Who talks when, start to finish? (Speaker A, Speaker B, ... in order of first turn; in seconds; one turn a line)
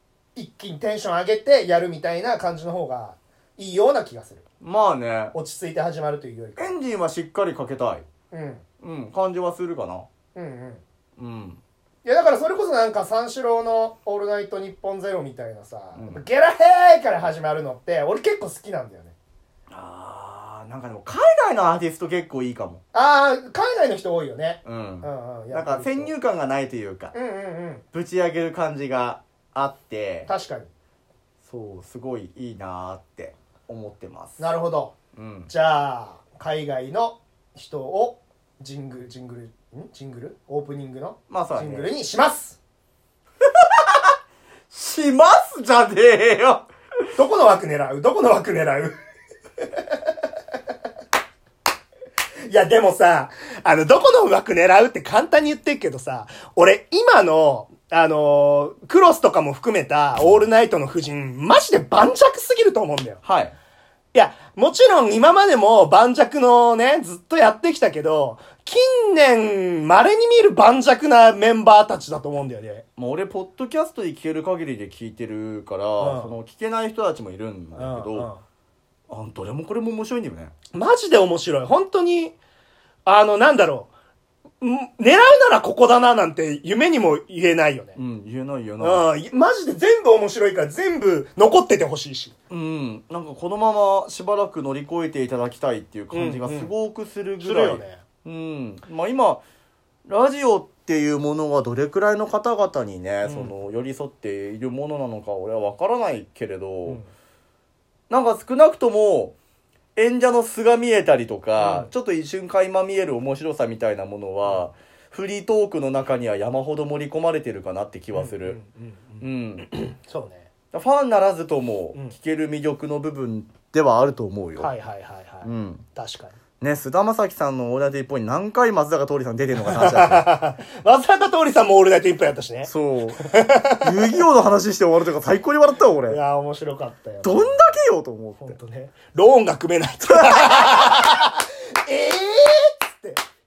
Speaker A: 0.3-4.4
Speaker B: 4.6-5.3
Speaker A: 5.3-6.8
Speaker B: 6.6-8.1
Speaker A: 8.3-8.6
Speaker B: 8.8-10.1
Speaker A: 10.3-10.8
Speaker B: 11.2-11.6
Speaker A: 12.1-19.1
Speaker B: 16.0-16.2
Speaker B: 19.7-22.8
Speaker A: 22.9-26.1
Speaker B: 24.6-27.1
Speaker A: 27.1-27.8
Speaker B: 27.9-30.3
Speaker A: 30.3-30.7
Speaker B: 31.4-34.4
Speaker A: 34.4-34.9
Speaker B: 35.1-35.5
Speaker A: 35.5-42.6
Speaker B: 41.3-41.9
Speaker B: 43.4-44.1
Speaker B: 44.7-46.6
Speaker A: 47.1-49.0
Speaker A: 49.7-50.1
Speaker A: 52.5-63.2
Speaker B: 63.2-63.5
Speaker A: 64.1-72.8
Speaker B: 73.0-78.3
Speaker A: 76.0-76.3
Speaker A: 77.8-78.4
Speaker B: 79.1-80.5
Speaker A: 80.7-82.4
Speaker A: 83.0-83.9
Speaker A: 84.6-88.0
Speaker B: 88.0-89.1
Speaker A: 88.8-92.3
Speaker B: 92.5-99.4
Speaker A: 96.1-96.7
Speaker A: 97.4-98.0
Speaker B: 100.1-107.0
Speaker A: 103.2-103.5
Speaker B: 108.1-109.3
Speaker B: 110.0-118.6
Speaker A: 111.6-111.9
Speaker A: 118.1-120.5
Speaker B: 119.2-119.7
Speaker B: 120.7-124.7
Speaker A: 124.6-126.4
Speaker B: 125.4-125.8
Speaker B: 126.6-130.3
Speaker A: 129.6-133.9
Speaker B: 132.7-133.2
Speaker B: 133.8-136.2
Speaker A: 136.1-137.7
Speaker B: 137.2-138.6
Speaker A: 138.4-143.2
Speaker B: 140.1-140.9